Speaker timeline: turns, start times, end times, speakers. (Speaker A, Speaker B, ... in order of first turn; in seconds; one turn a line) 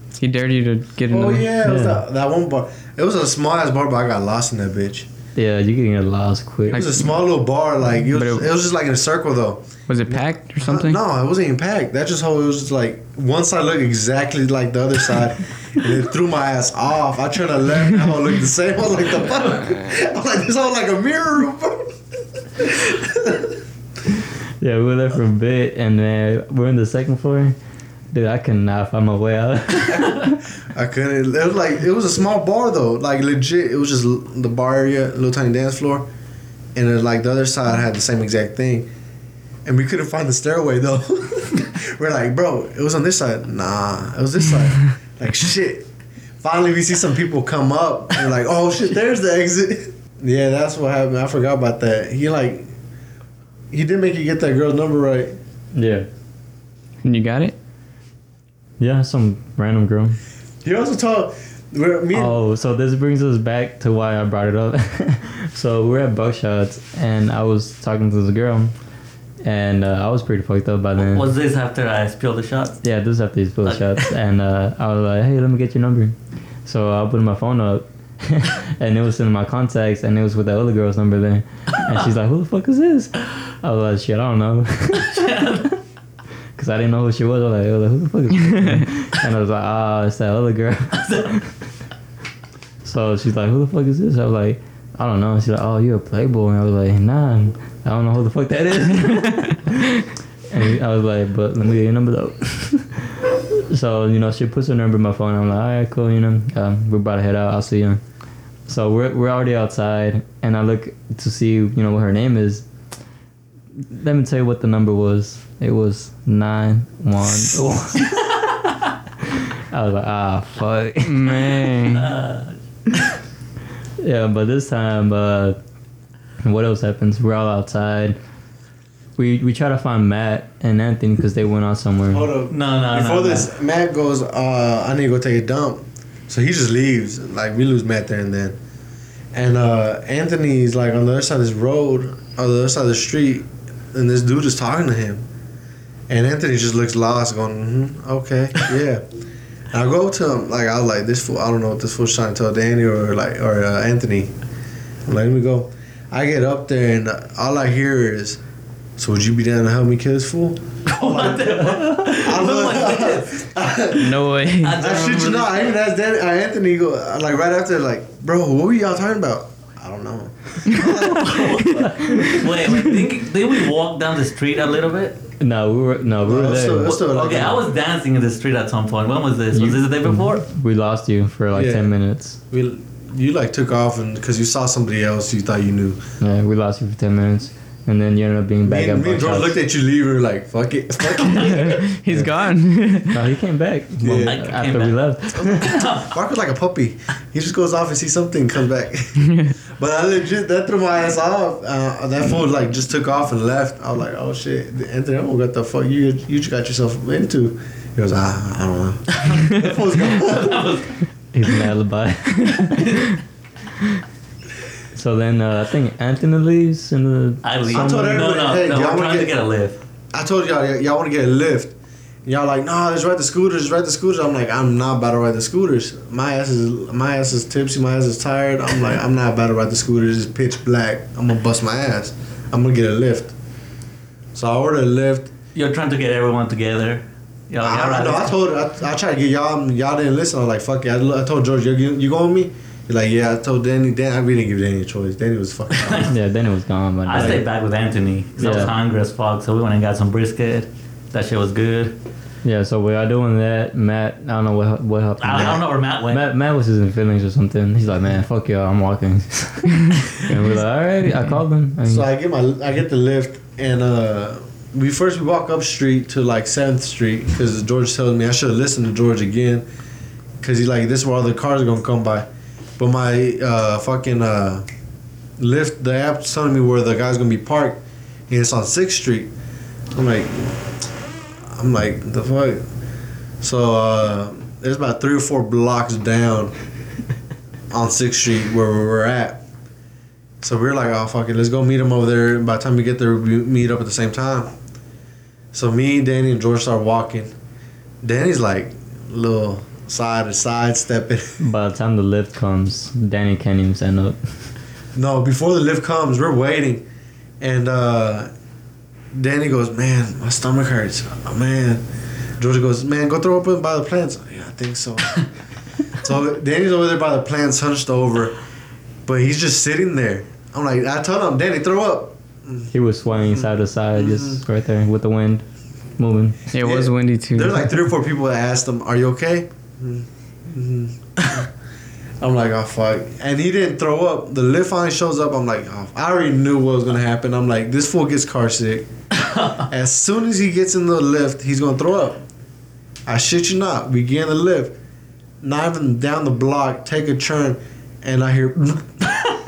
Speaker A: 0.2-1.5
Speaker B: 1.1-5.1
Speaker C: 1.6-2.0
Speaker C: 5.3-6.9
Speaker B: 6.7-21.9
Speaker A: 6.7-7.1
Speaker A: 8.1-8.5
Speaker A: 9.9-11.0
Speaker B: 22.6-23.6
Speaker C: 24.6-27.5
Speaker C: 28.1-30.3
Speaker B: 29.9-36.0
Speaker B: 36.7-38.9
Speaker B: 39.6-45.9
Speaker B: 46.4-52.7
Speaker B: 53.7-55.4
Speaker C: 55.7-56.1
Speaker A: 57.0-57.5
Speaker C: 58.8-60.2
Speaker B: 60.6-62.3
Speaker C: 62.1-68.7
Speaker C: 69.4-71.3
Speaker D: 71.0-72.8
Speaker C: 72.8-85.7
Speaker D: 73.7-74.1
Speaker D: 84.9-85.8
Speaker C: 86.5-91.5
Speaker D: 91.0-91.3
Speaker C: 92.8-100.0
Speaker C: 100.5-108.0
Speaker C: 108.7-112.7
Speaker C: 113.9-118.2
Speaker C: 119.2-121.5
Speaker A: 121.0-122.1
Speaker D: 121.9-122.5
Speaker C: 124.0-125.6
Speaker C: 126.4-128.2
Speaker C: 129.2-132.3
Speaker B: 132.1-138.6
Speaker D: 132.5-133.5
Speaker B: 139.3-145.2
Speaker B: 146.1-149.0
Speaker B: 149.7-154.3
Speaker B: 155.1-158.4
Speaker B: 159.0-164.2
Speaker D: 160.8-163.4
Speaker A: 163.9-165.0
Speaker D: 164.6-165.6
Speaker B: 164.8-172.4
Speaker D: 170.7-175.3
Speaker C: 172.0-172.4
Speaker C: 175.4-177.0
Speaker B: 176.2-177.7
Speaker D: 176.8-180.4
Speaker C: 179.5-182.4
Speaker B: 181.5-181.9
Speaker B: 182.5-186.0
Speaker C: 186.2-189.6
Speaker B: 188.6-191.8
Speaker D: 191.2-191.6
Speaker A: 191.2-193.2
Speaker C: 193.1-195.8
Speaker B: 194.0-194.4
Speaker D: 194.2-196.1
Speaker B: 196.0-210.7
Speaker D: 209.2-211.0
Speaker C: 211.3-212.8
Speaker D: 212.7-213.1
Speaker C: 214.9-218.2
Speaker D: 217.4-219.8
Speaker B: 217.7-219.3
Speaker B: 220.1-221.7
Speaker B: 222.2-233.3
Speaker B: 234.3-235.3
Speaker D: 235.5-238.3
Speaker B: 237.6-246.1
Speaker D: 245.8-246.1
Speaker C: 246.0-247.4
Speaker D: 247.0-252.0
Speaker B: 247.1-247.4
Speaker C: 248.4-248.7
Speaker C: 252.4-262.1
Speaker D: 255.2-256.2
Speaker B: 255.3-255.6
Speaker B: 261.9-269.6
Speaker B: 270.4-272.3
Speaker B: 272.8-274.6
Speaker B: 275.4-279.3
Speaker B: 279.9-280.7
Speaker B: 281.5-282.6
Speaker B: 283.4-286.5
Speaker B: 287.7-289.4
Speaker B: 290.4-294.5
Speaker B: 295.5-297.3
Speaker B: 298.0-301.4
Speaker C: 301.4-304.2
Speaker B: 304.9-306.8
Speaker B: 307.4-308.3
Speaker B: 309.1-311.8
Speaker B: 312.4-315.3
Speaker B: 315.9-318.4
Speaker B: 319.1-322.7
Speaker C: 322.7-325.4
Speaker B: 323.2-324.4
Speaker C: 326.0-326.4
Speaker A: 326.5-327.5
Speaker B: 326.6-331.5
Speaker B: 332.2-338.9
Speaker D: 339.1-339.6
Speaker B: 339.7-342.2
Speaker B: 343.1-344.8
Speaker B: 345.4-349.4